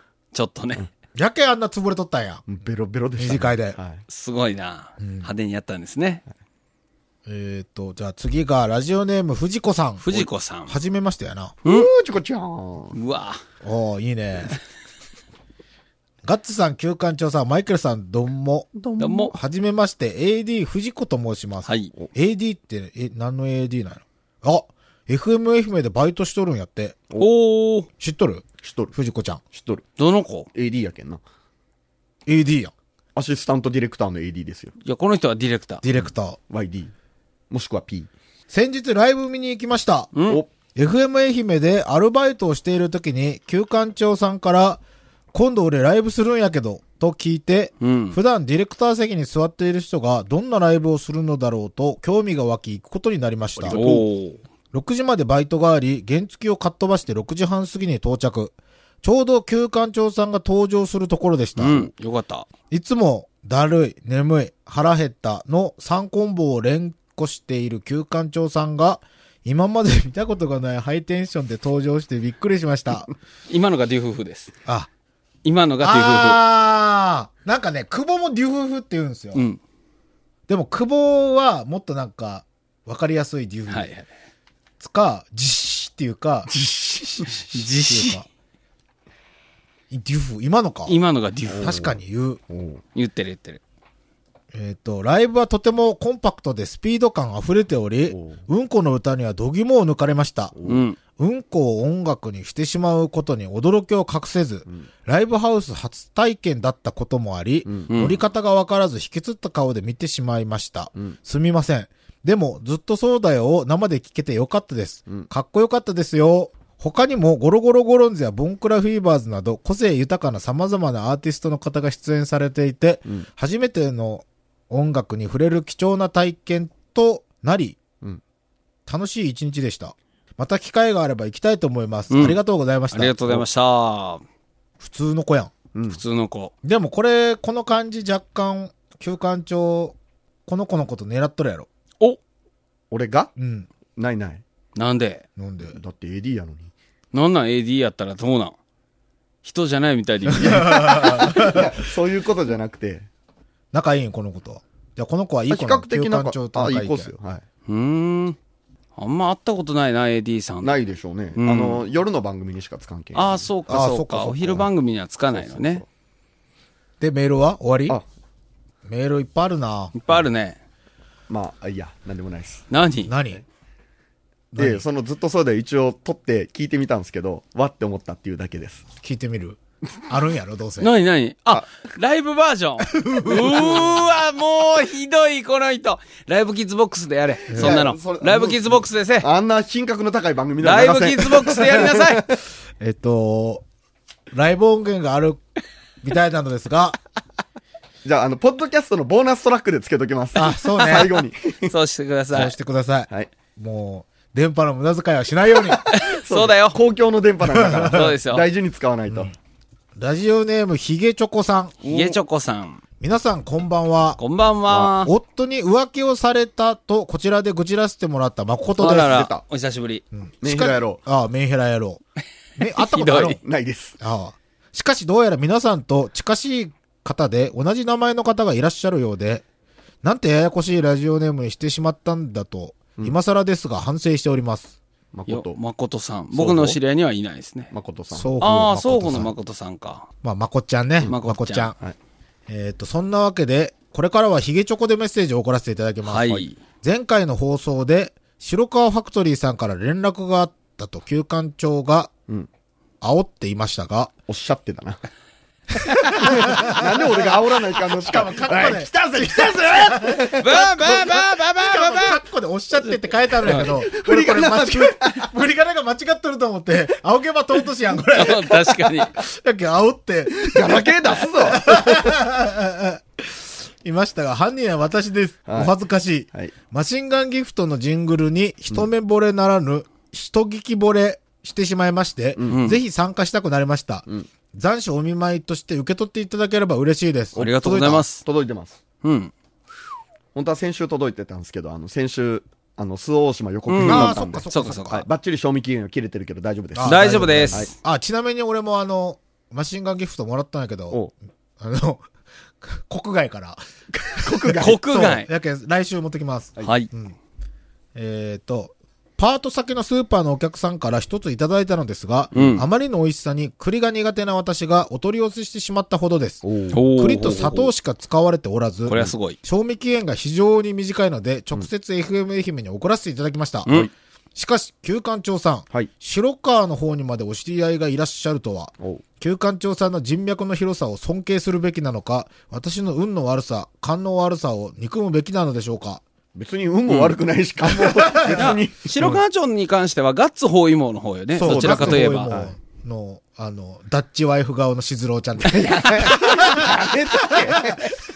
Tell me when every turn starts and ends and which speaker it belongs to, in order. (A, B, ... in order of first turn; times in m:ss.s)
0:00.3-0:00.9 A
0:01.2-0:02.4 B
0:02.5-0:04.0 C
0:03.2-0:03.8 B
0:04.1-0:06.2 A
0:05.0-0:05.3 B
0:07.3-0:11.6 B
0:10.0-0:10.7 A
0:11.6-0:13.0 C
0:12.9-0:13.4 A
0:13.6-0:14.6 B
0:16.2-0:27.0 B
0:19.0-0:19.3 A
0:21.6-0:21.9 A
0:27.2-0:27.9 A
0:28.0-0:29.4 B
0:28.6-0:28.9 C
0:29.5-0:29.8 C
0:30.0-0:30.5 A
0:30.5-0:31.2 C
0:32.3-0:32.7 B
0:33.2-0:34.7 C
0:34.8-0:35.8 A
0:35.8-0:36.4 B
0:36.5-0:36.9 C
0:37.5-0:38.1 C
0:38.5-0:40.1 B
0:40.1-0:40.4 A
0:40.8-0:44.8 B
0:45.3-0:53.8 B
0:47.8-0:48.2 A
0:53.6-0:54.1 C
0:53.7-0:54.4 A
0:54.7-1:01.9 B
1:01.6-1:02.5 A
1:02.7-1:13.1 B
1:13.5-1:14.5 A
1:15.4-1:16.4 A
1:15.8-1:19.4 B
1:20.5-1:23.9 B
1:23.7-1:24.1 A
1:24.8-1:26.5 B
1:26.5-1:27.5 C
1:27.5-1:28.2 A
1:27.8-1:28.3 B
1:29.9-1:31.0 B
1:30.9-1:31.8 A
1:31.5-1:32.0 C
1:31.6-1:32.4 B
1:32.5-1:32.8 C
1:33.0-1:33.6 A
1:34.5-1:40.6 B
1:38.1-1:38.4 C
1:40.6-1:40.8 C
1:40.6-1:41.0 A
1:41.2-2:07.8 B
1:47.7-1:47.9 C
1:47.9-1:48.2 A
2:08.9-2:13.4 B
2:12.1-2:12.4 A
2:12.9-2:14.2 A
2:14.8-2:15.5 B
2:15.7-2:16.0 C
2:15.9-2:16.5 A
2:16.6-2:21.7 B
2:22.9-2:23.3 C
2:23.4-2:23.7 B
2:24.0-2:24.4 C
2:24.8-2:25.2 A
2:25.4-2:25.8 B
2:25.7-2:26.7 C
2:27.1-2:28.6 A
2:29.4-2:30.9 A
2:30.3-2:31.8 B
2:30.4-2:33.1 C
2:33.7-2:37.1 B
2:35.5-2:37.4 C
2:37.7-2:38.4 A
2:39.0-2:40.7 A
2:40.6-2:43.5 C
2:41.4-2:41.8 A
2:43.2-2:45.8 A
2:43.7-2:44.7 B
2:45.3-2:45.9 C
2:47.0-2:48.0 B
2:48.8-2:50.0 B
2:49.9-2:50.6 A
2:51.3-2:52.7 C
2:52.7-2:53.1 A
2:53.1-2:53.4 B
2:54.6-2:54.8 B
2:54.6-2:58.8 C
2:59.0-3:00.9 B
3:00.8-3:09.3 A
3:02.9-3:04.0 B
3:07.5-3:07.8 B
3:07.5-3:12.4 C
3:10.6-3:12.3 A
3:12.8-3:13.6 B
3:14.3-3:15.4 B
3:16.0-3:17.0 B
3:18.0-3:21.7 C
3:20.4-3:21.2 B
3:21.7-3:22.6 A
3:22.3-3:25.8 B
3:25.7-3:29.3 C
3:25.9-3:26.8 A
3:27.4-3:28.1 B
3:27.8-3:28.4 A
3:30.0-3:31.8 B
3:31.8-3:32.8 A
3:33.0-3:34.2 B
3:34.2-3:35.1 A
3:34.9-3:39.2 B
3:38.8-3:40.0 A
3:38.8-3:39.4 C
3:40.1-3:42.0 B
3:40.4-3:41.0 C
3:42.6-3:43.4 B
3:42.8-3:43.4 A
3:43.4-3:44.0 C
3:44.0-3:49.4 B
3:50.0-3:54.8 B
3:55.1-3:55.6 C
3:55.3-3:57.7 A
3:56.3-3:56.8 C
3:57.7-3:58.3 C
3:58.1-3:59.3 B
3:58.4-4:00.1 A
4:00.2-4:01.8 B
4:01.1-4:01.7 A
4:02.5-4:12.1 B
4:06.0-4:06.6 A
4:13.0-4:14.1 B
4:14.3-4:15.0 C
4:15.8-4:48.0 B
4:15.9-4:16.3 A
4:16.1-4:21.2 C
4:20.4-4:22.2 A
4:23.4-4:25.3 C
4:28.2-4:29.1 A
4:30.4-4:32.0 C
4:35.5-4:35.7 C
4:42.5-4:42.8 A
4:47.4-4:48.2 A
4:47.4-4:48.8 C
4:49.0-4:49.3 A
4:50.4-4:57.7 C
4:53.7-4:55.0 A
4:53.8-4:55.0 B
4:56.8-5:01.0 B
4:56.8-4:57.7 A
5:01.6-5:02.0 B
5:02.6-5:03.6 B
5:03.9-5:04.8 C
5:04.2-5:07.2 B
5:04.6-5:05.3 A
5:06.6-5:06.9 A
5:08.0-5:36.0 B
5:12.3-5:12.6 A
5:12.4-5:12.6 C
5:16.4-5:16.8 C
5:16.7-5:17.7 A
5:18.9-5:19.4 A
5:36.4-5:38.9 C
5:36.9-5:37.2 A
5:37.7-5:39.2 B
5:38.3-5:42.3 A
5:41.4-5:47.8 B
5:41.4-5:42.5 C
5:45.4-5:47.9 C
5:45.7-5:46.7 A